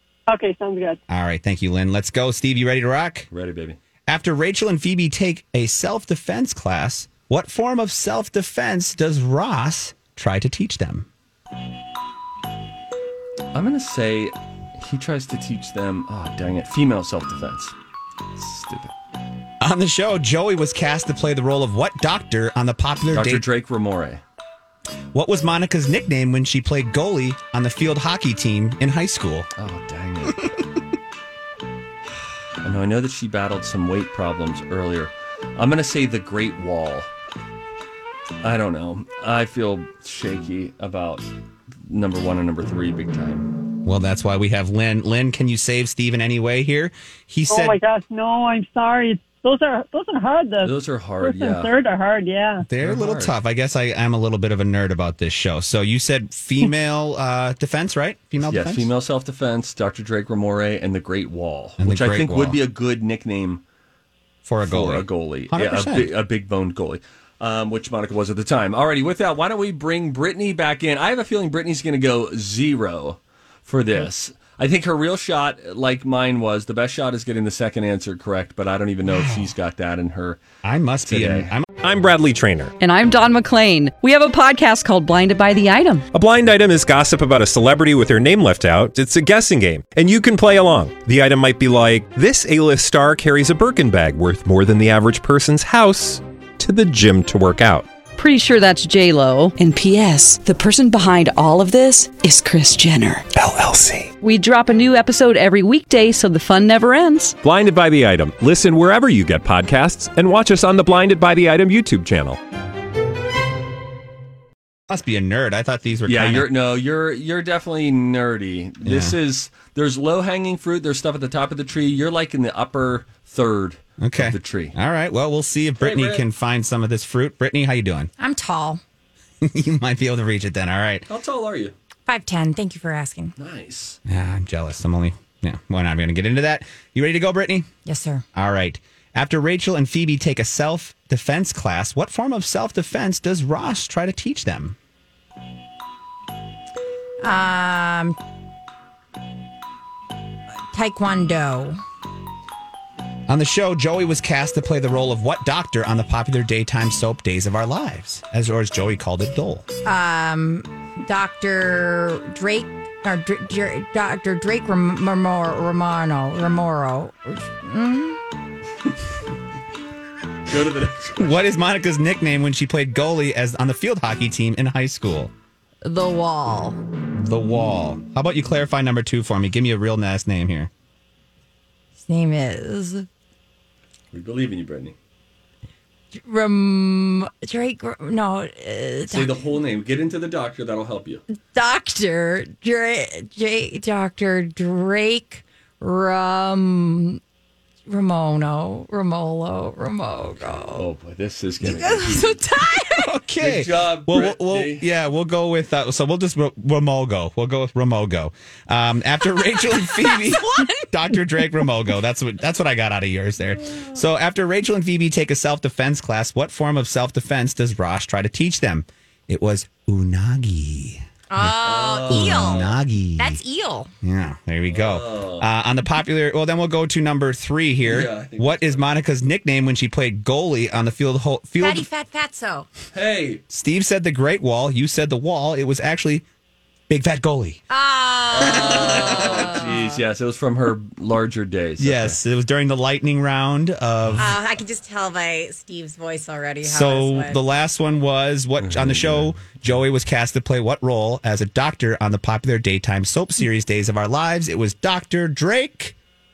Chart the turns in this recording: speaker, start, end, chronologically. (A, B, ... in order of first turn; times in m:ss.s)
0:00.3-0:01.0 A
0:01.1-0:03.3 B
0:03.3-0:03.8 C
0:04.1-0:11.1 B
0:13.5-0:17.7 C
0:18.3-0:18.9 C
0:19.6-0:23.4 B
0:23.1-0:24.2 C
0:25.1-0:29.5 B
0:29.6-0:30.6 C
0:32.6-0:37.1 C
0:38.4-0:41.3 C
0:41.8-0:43.5 C
0:43.8-0:47.8 B
0:47.5-0:52.6 A
0:50.6-0:51.7 C
0:52.6-0:58.9 B
0:52.8-0:53.3 C
0:58.4-1:03.6 C
1:01.8-1:02.6 B
1:04.4-1:06.1 B
1:04.6-1:20.4 C
1:19.0-1:19.5 B
1:20.6-1:21.7 B
1:21.0-1:21.5 C
1:21.8-1:22.8 D
1:22.8-1:26.0 E
1:26.1-1:37.9 D
1:38.1-1:43.2 E
1:43.4-1:44.1 D
1:44.2-1:47.3 E
1:47.4-1:52.4 D
1:54.9-1:56.5 B
1:56.0-2:04.7 C
1:58.8-1:59.2 B
2:04.0-2:08.1 B
2:05.8-2:06.2 C
2:08.2-2:08.8 F
2:09.4-2:11.0 B
2:11.1-2:11.7 C
2:12.1-2:13.3 F
2:13.4-2:14.0 C
2:14.0-2:17.7 B
2:17.8-2:18.2 F
2:18.3-2:24.8 B
2:27.2-2:28.2 F
2:30.7-2:31.8 F
2:33.3-2:39.6 B
2:39.8-2:48.2 F
2:50.5-2:51.4 C
2:51.2-2:55.3 B
2:55.8-2:56.8 F
2:57.1-3:00.7 B
3:02.0-3:03.0 F
3:04.1-3:04.9 C
3:06.2-3:09.4 F
3:09.1-3:11.2 C
3:11.5-3:17.2 F
3:17.9-3:20.8 F
3:20.7-3:22.4 C
3:21.6-3:23.1 F
3:22.9-3:43.4 B
3:23.4-3:24.9 C
3:29.8-3:30.9 F
3:41.3-3:42.6 F
3:41.6-3:42.8 C
3:43.2-3:43.9 F
3:44.0-3:51.9 B
3:44.7-3:45.4 C
3:47.8-3:48.8 C
3:51.6-3:52.7 F
3:52.9-3:53.4 C
3:53.5-3:56.2 B
3:56.9-3:57.6 B
3:57.7-4:00.0 F
3:58.3-4:02.2 C
4:01.8-4:04.3 B
4:04.2-4:07.4 F
4:06.6-4:16.0 B
4:08.6-4:09.6 C